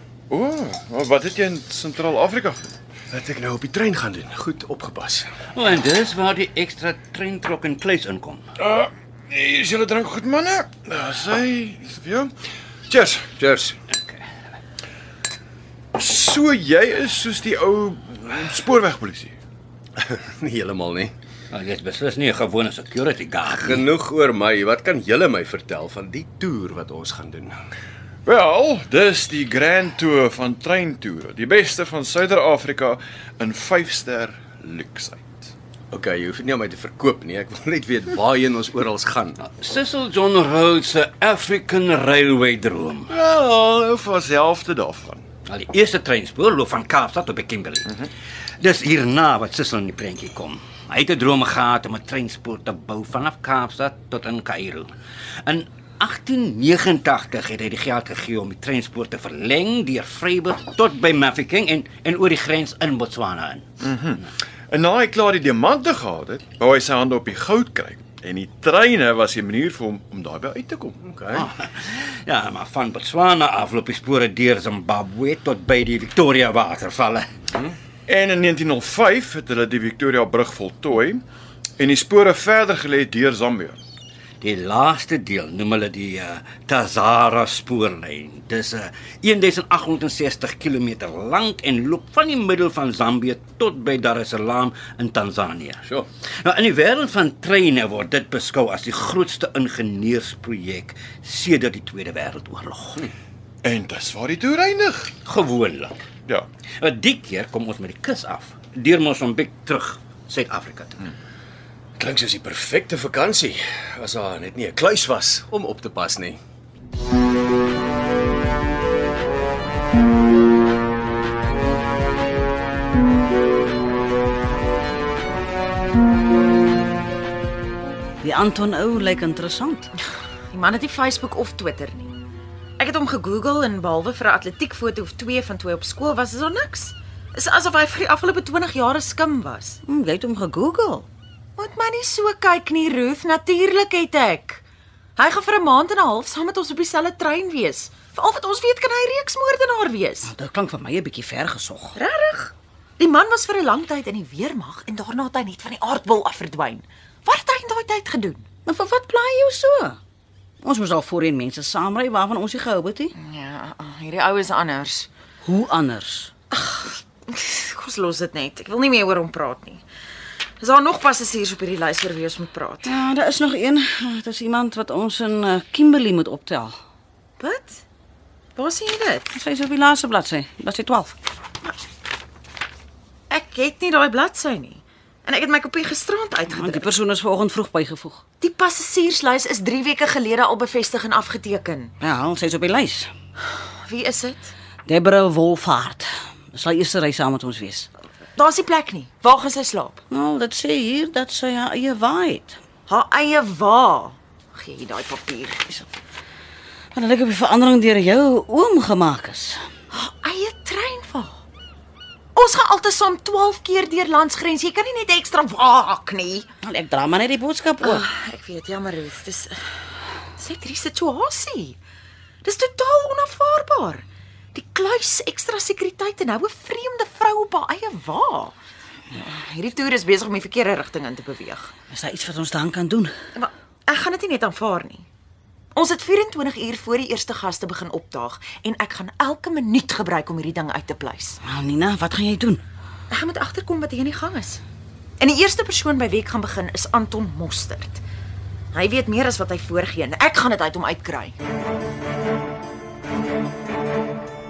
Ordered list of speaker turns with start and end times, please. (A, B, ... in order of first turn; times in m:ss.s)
0:00.3-0:02.6 A
0:03.1-0:05.3 B
0:05.5-0:08.4 C
0:08.6-0:12.3 A
0:12.9-0:13.3 A
0:13.4-0:13.7 B
0:15.9-0:19.4 A
0:20.0-0:21.1 B
0:21.5-0:23.8 C
0:23.5-0:27.6 B
0:28.2-0:35.5 A
0:35.9-0:39.4 B
0:39.4-0:43.1 C
0:43.1-0:45.2 A
0:45.4-0:47.9 C
0:48.6-0:54.9 C
0:55.4-1:03.6 C
1:03.8-1:11.0 A
1:11.0-1:11.5 B
1:11.3-1:17.3 C
1:18.1-1:21.2 A
1:21.8-1:23.8 A
1:24.4-1:35.8 C
1:36.4-1:43.0 C
1:43.6-1:45.1 A
1:45.2-1:46.0 C
1:46.8-1:51.0 C
1:52.0-1:56.4 B
2:08.2-2:09.9 D
2:10.5-2:12.1 E
2:12.8-2:19.8 E
2:19.8-2:21.1 D
2:21.6-2:24.6 E
2:25.2-2:30.3 E
2:30.2-2:32.0 D
2:32.0-2:38.4 E
2:38.6-2:40.0 D
2:40.6-2:43.1 D
2:43.2-2:45.1 E
2:45.4-2:46.3 D
2:46.5-2:49.8 E
2:50.6-2:53.0 E
2:52.8-2:56.8 D
2:57.4-2:57.8 E
2:58.6-2:59.3 E
2:59.3-3:01.2 D
3:03.3-3:06.9 E
3:06.5-3:08.2 D
3:08.4-3:11.9 E
3:12.0-3:13.1 D
3:13.5-3:14.5 E
3:14.8-3:17.9 D
3:18.4-3:20.0 E
3:20.1-3:22.6 D
3:22.9-3:25.6 E
3:26.9-3:29.6 D
3:29.9-3:31.4 E
3:32.3-3:36.5 E
3:36.6-3:38.0 D
3:37.8-3:39.6 E
3:40.4-3:41.8 E
3:42.4-3:48.6 E
3:49.2-3:51.7 E
3:51.9-3:53.1 D
3:53.4-3:55.0 E
3:55.7-4:01.4 E
4:01.4-4:02.6 D
4:03.1-4:04.6 E
4:05.2-4:08.0 E
4:08.7-4:11.4 E